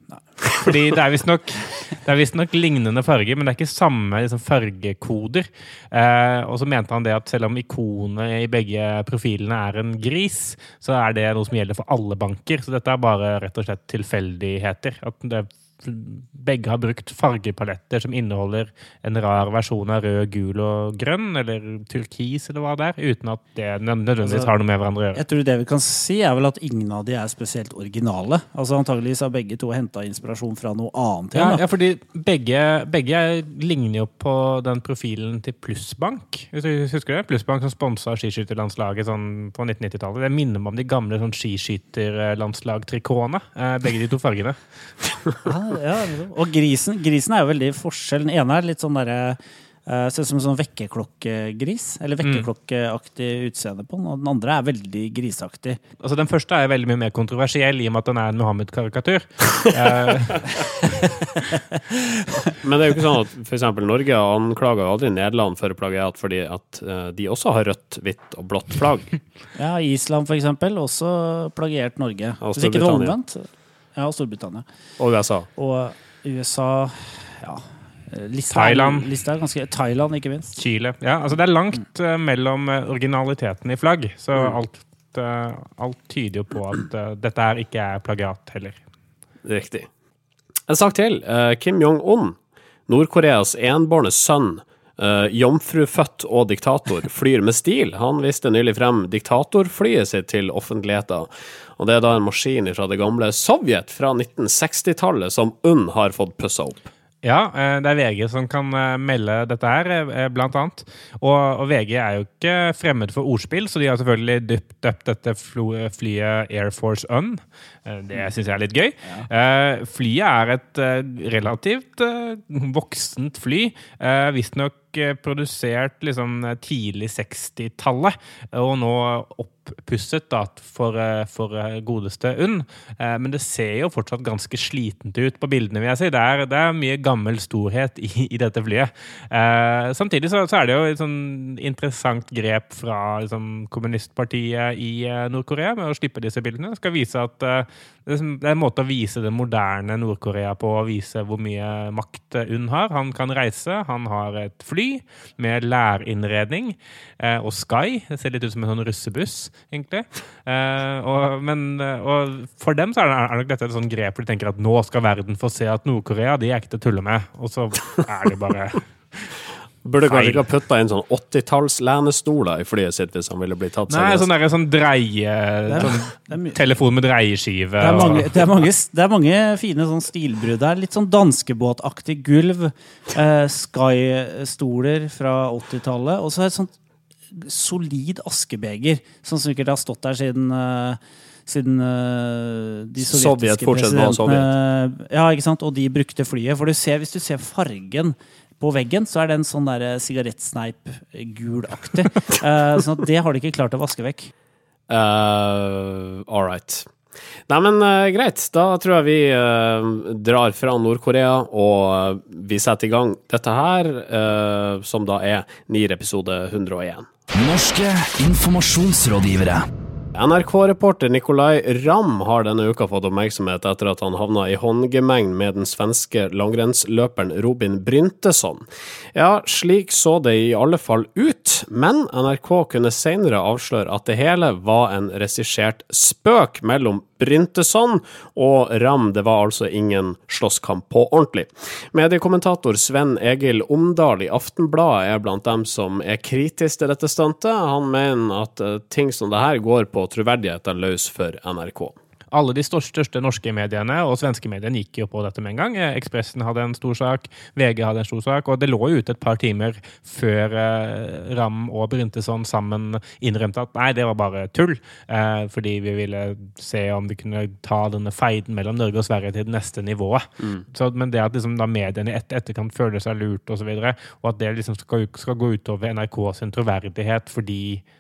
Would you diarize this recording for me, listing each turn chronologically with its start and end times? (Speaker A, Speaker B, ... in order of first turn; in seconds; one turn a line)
Speaker A: 0.4-25.2
Speaker B: 24.2-24.5
Speaker B: 25.1-31.6
Speaker A: 31.4-44.6
Speaker B: 45.4-55.8
Speaker A: 56.0-61.6
Speaker C: 62.6-69.2
Speaker B: 69.6-74.7
Speaker C: 72.4-73.2
Speaker C: 75.0-75.5
Speaker B: 75.6-80.6
Speaker A: 78.5-79.1
Speaker A: 80.6-88.8
Speaker C: 89.5-89.9
Speaker C: 90.7-92.4
Speaker C: 92.9-106.9
Speaker A: 107.2-169.4
Speaker C: 169.8-174.3
Speaker A: 170.0-170.4
Speaker A: 173.9-178.4
Speaker B: 175.7-176.6
Speaker B: 177.8-186.7
Speaker B: 187.3-204.3
Speaker C: 193.0-194.5
Speaker C: 204.9-206.9
Speaker C: 207.5-217.1
Speaker D: 217.3-219.6
Speaker C: 220.2-252.0
Speaker A: 252.3-277.8